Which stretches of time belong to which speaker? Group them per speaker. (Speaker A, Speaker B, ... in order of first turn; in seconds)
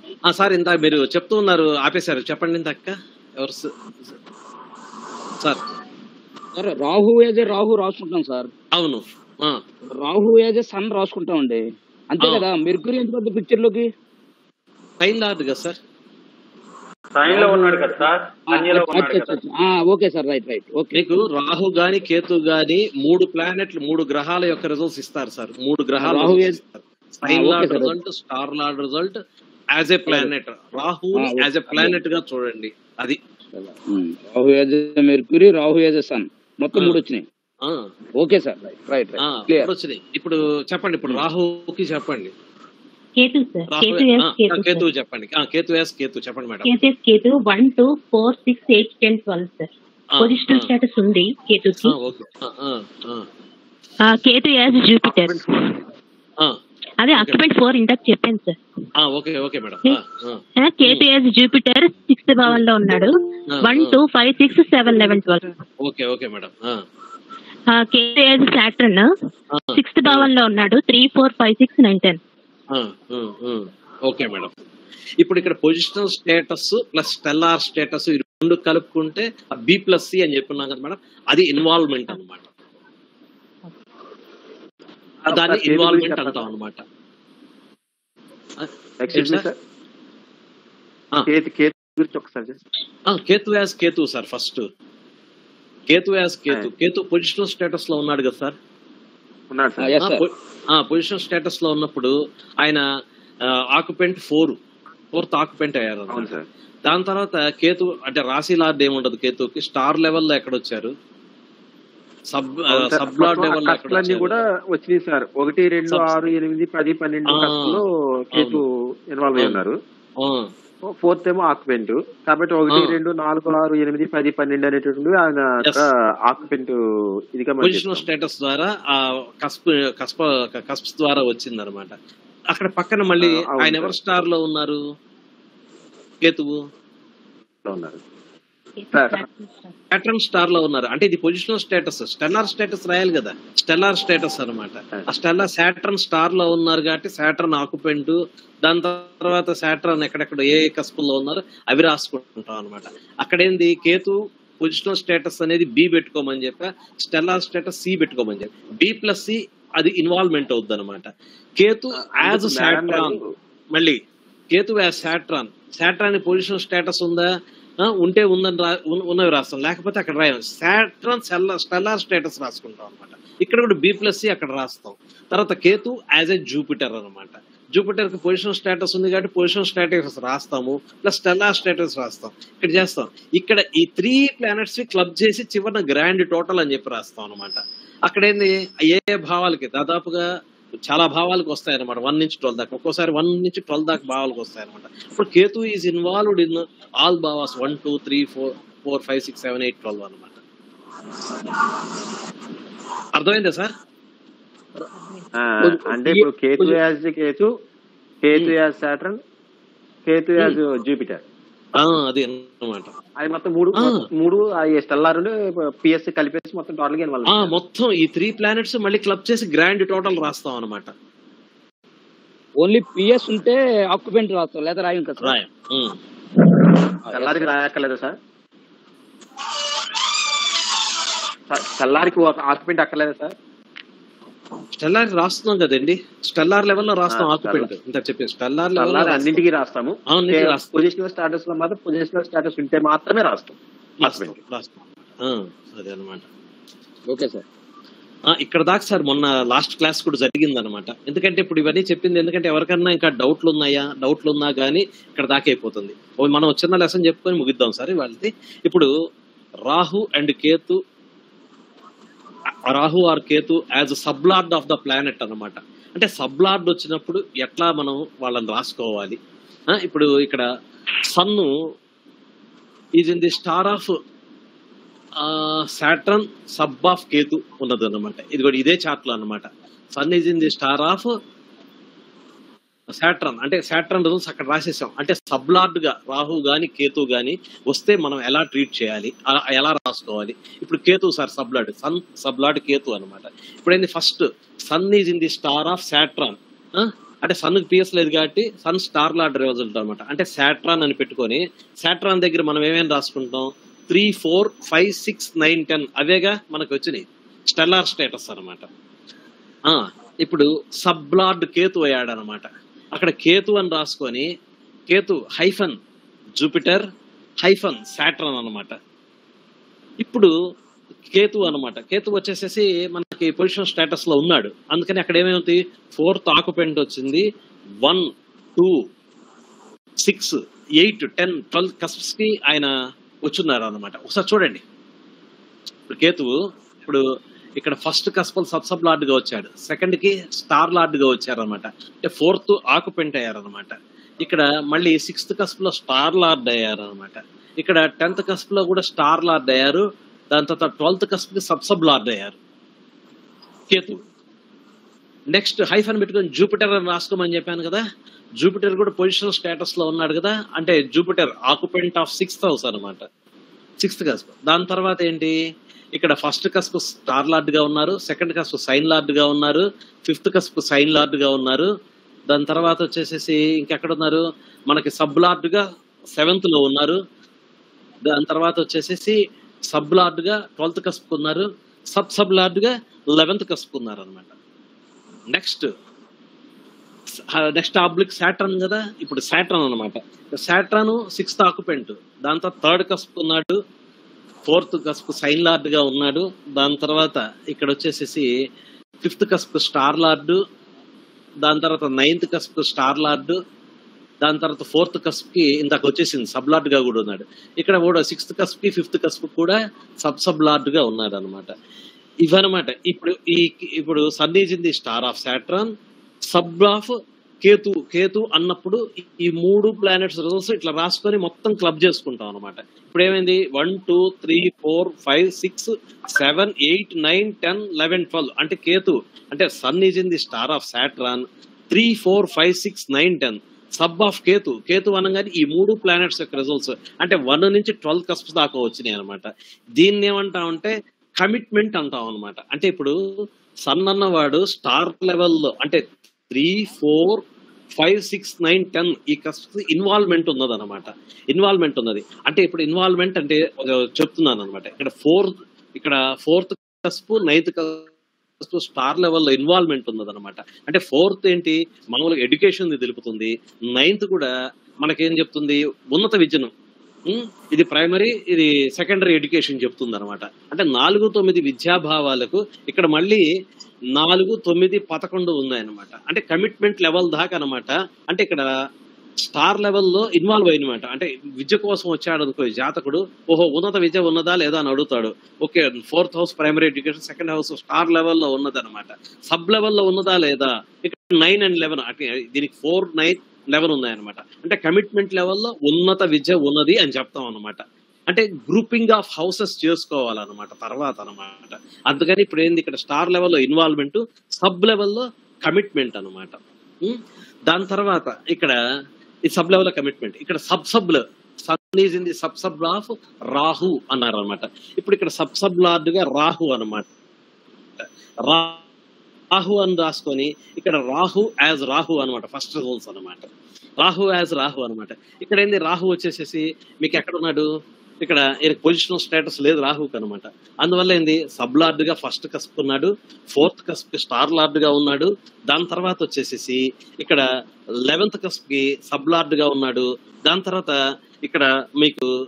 Speaker A: 0.3-4.1, 8.7-9.6, 15.0-15.8, 20.9-29.2, 29.8-33.2, 37.6-37.9, 39.2-42.3, 43.7-46.7, 50.2-50.7, 51.8-53.3, 57.1-57.4, 59.0-61.1, 63.5-64.0, 65.8-66.8, 69.5-70.3, 72.7-74.5, 75.2-82.5, 85.3-86.8, 88.6-89.5, 93.1-94.7, 95.9-98.5, 100.0-102.8, 103.5-104.6, 105.1-106.3, 106.8-110.9, 112.3-114.4, 115.9-116.2, 117.3-117.8, 118.3-118.6, 120.2-120.5, 122.7-123.0, 127.6-131.9, 132.5-134.8, 136.2-136.6, 139.9-161.1, 161.6-163.2, 163.7-164.0, 164.5-167.3, 167.8-190.2, 190.9-200.4, 203.2-203.7, 211.8-212.9, 213.8-214.0, 217.3-220.9, 225.2-225.9, 234.8-239.4, 240.1-240.7, 244.0-246.2, 248.3-258.9, 259.7-260.8, 262.7-269.2, 269.7-270.4, 271.1-271.5, 273.0-273.9, 275.2-281.1, 282.9-308.7, 309.7-314.2, 314.9-315.8, 316.4-316.8, 317.4-318.8, 320.0-320.3, 321.1-327.2, 327.8-328.8, 330.0-332.7, 333.2-334.6, 335.9-337.0, 337.6-352.4, 353.7-354.0, 355.3-357.8, 358.4-363.0, 363.8-365.4, 365.9-371.7, 372.3-375.6, 376.2-377.0, 378.1-379.1, 379.7-384.3, 385.3-385.7, 387.2-393.6, 394.4-398.2, 399.0-400.4, 401.4-403.4, 404.2-411.5, 412.2-415.7, 416.3-416.9, 417.4-439.3, 439.8-442.9, 443.7-447.2, 447.8-457.9, 458.4-464.3, 464.8-466.5, 467.1-473.2, 473.9-478.5, 479.2-508.6, 509.3-516.9, 517.8-518.6, 519.3-523.3, 523.8-527.5, 528.0-537.2, 537.8-542.1
Speaker B: 6.5-8.5, 9.9-13.9, 17.3-18.0, 18.5-21.1, 26.0-26.6, 27.3-27.9, 30.1-30.3, 31.1-31.9, 33.5-37.2, 38.2-39.7, 99.8-100.2, 222.6-225.3, 227.1-227.5, 247.1-247.4
Speaker C: 17.1-19.4
Speaker D: 43.2-44.9, 46.6-51.9, 54.0-55.5, 57.0-58.6, 60.6-65.5, 67.7-69.1, 69.7-72.2, 138.8-139.7
Speaker E: 55.0-55.4, 85.2-86.5, 89.0-89.5, 91.3-92.6, 99.5-99.9, 106.1-106.4, 112.7-119.8, 120.9-126.8, 127.3-128.1, 133.2-133.9, 137.6-138.0, 138.9-139.2, 161.9-163.2, 205.3-207.5, 208.2-209.2, 210.1-211.2, 213.2-217.5, 227.1-228.2, 231.5-233.3, 237.1-237.7, 238.8-244.4